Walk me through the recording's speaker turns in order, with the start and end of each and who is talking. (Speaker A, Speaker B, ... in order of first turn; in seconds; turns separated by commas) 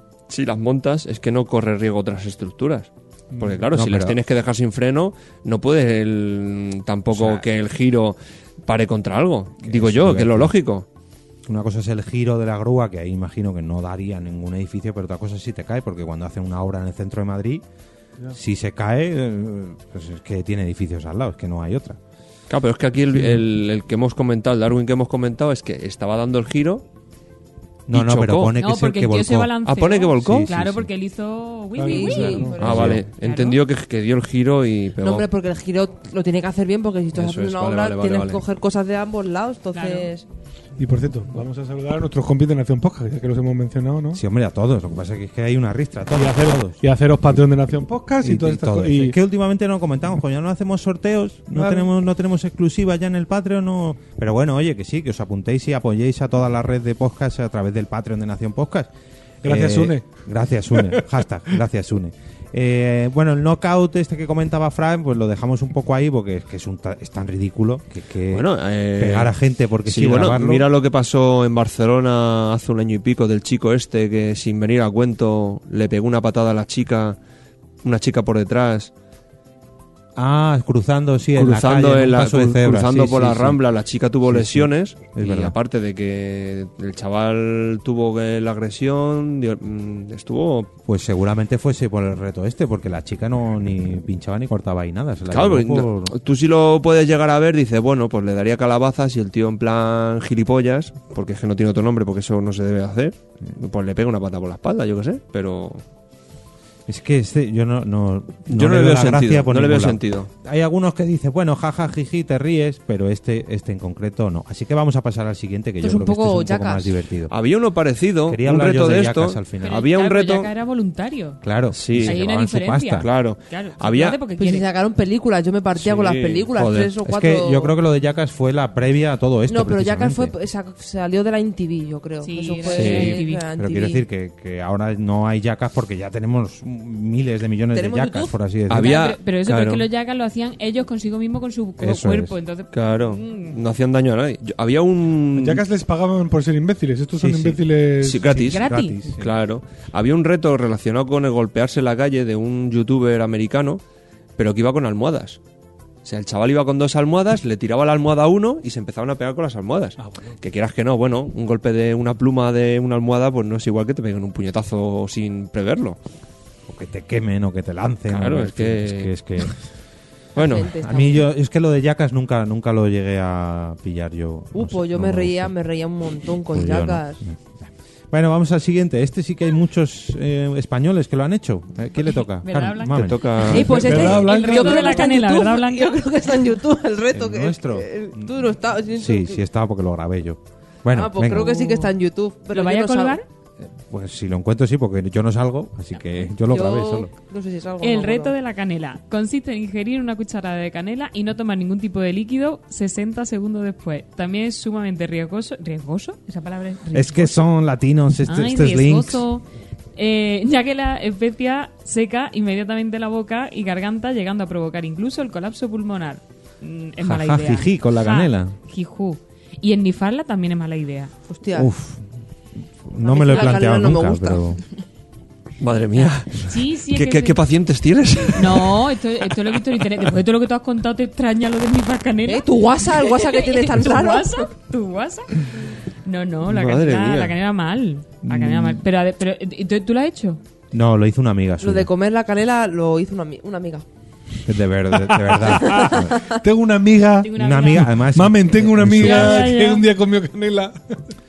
Speaker A: 0.3-10.9, Speaker B: 3.3-3.6, Speaker C: 3.7-4.2, Speaker C: 7.1-7.5, Speaker C: 9.6-10.5, Speaker C: 11.5-17.6, Speaker C: 18.3-22.0, Speaker A: 22.5-26.8, Speaker C: 27.9-29.6, Speaker A: 27.9-28.5, Speaker D: 28.6-33.6, Speaker A: 29.6-30.5, Speaker C: 30.2-30.9, Speaker B: 31.8-32.6, Speaker E: 31.8-33.0, Speaker A: 32.6-35.3, Speaker C: 32.6-33.0, Speaker E: 35.0-40.2, Speaker A: 37.1-38.4, Speaker D: 39.7-40.1, Speaker B: 40.8-44.2, Speaker C: 44.1-46.8, Speaker B: 46.1-49.2, Speaker C: 48.2-58.9, Speaker B: 51.5-51.9, Speaker B: 59.4-60.1, Speaker C: 59.4-70.7, Speaker B: 60.7-61.0, Speaker A: 68.3-69.3, Speaker A: 69.8-77.2, Speaker A: 77.8-78.9, Speaker C: 80.2-83.6, Speaker A: 81.4-90.7, Speaker C: 84.3-85.5, Speaker C: 90.9-96.1, Speaker A: 95.3-105.8, Speaker C: 106.9-117.3, Speaker A: 108.5-110.3, Speaker E: 115.8-116.9, Speaker A: 117.3-120.5, Speaker C: 118.3-119.8, Speaker D: 119.6-121.4, Speaker C: 121.4-123.1, Speaker A: 121.7-122.2, Speaker D: 122.0-124.7, Speaker A: 123.0-124.2, Speaker E: 124.4-127.7, Speaker A: 125.8-126.9, Speaker C: 127.0-130.3, Speaker E: 129.5-134.0, Speaker D: 132.2-133.4, Speaker A: 132.7-133.2, Speaker C: 132.9-139.0, Speaker E: 137.7-138.3, Speaker A: 138.7-139.8, Speaker D: 138.8-143.6, Speaker C: 141.8-142.3, Speaker A: 142.7-145.6, Speaker B: 145.4-148.4, Speaker C: 147.2-147.6, Speaker A: 148.0-148.6, Speaker C: 148.3-149.3, Speaker D: 148.5-149.0, Speaker A: 149.2-153.8, Speaker A: 154.4-155.4, Speaker A: 156.0-166.0, Speaker B: 160.0-160.3, Speaker C: 166.7-169.6, Speaker A: 168.1-169.1, Speaker A: 170.4-170.7, Speaker E: 170.4-171.3, Speaker C: 170.8-175.5, Speaker E: 174.5-177.2, Speaker C: 176.5-183.9, Speaker D: 182.2-186.0, Speaker A: 182.9-183.9, Speaker E: 183.5-189.4, Speaker B: 183.6-185.1, Speaker C: 187.1-188.3, Speaker C: 188.9-191.7, Speaker E: 190.9-193.2, Speaker D: 191.4-191.9, Speaker D: 192.5-193.2, Speaker C: 193.6-197.1, Speaker E: 196.5-198.3, Speaker D: 197.8-207.5, Speaker C: 206.9-209.2, Speaker D: 208.3-209.4, Speaker D: 210.0-221.1, Speaker C: 217.0-218.6, Speaker E: 221.3-221.7, Speaker C: 221.5-222.0, Speaker C: 222.8-224.6, Speaker E: 223.0-224.4, Speaker A: 225.6-228.9, Speaker D: 226.4-227.4, Speaker D: 228.4-235.4, Speaker E: 232.3-234.5, Speaker D: 236.1-240.4, Speaker A: 236.5-237.4, Speaker C: 238.2-238.8, Speaker C: 240.7-241.9, Speaker E: 241.6-243.8, Speaker C: 244.5-246.2, Speaker B: 245.0-250.8, Speaker E: 245.7-246.2, Speaker D: 247.2-247.9, Speaker C: 247.3-249.5, Speaker D: 248.9-249.9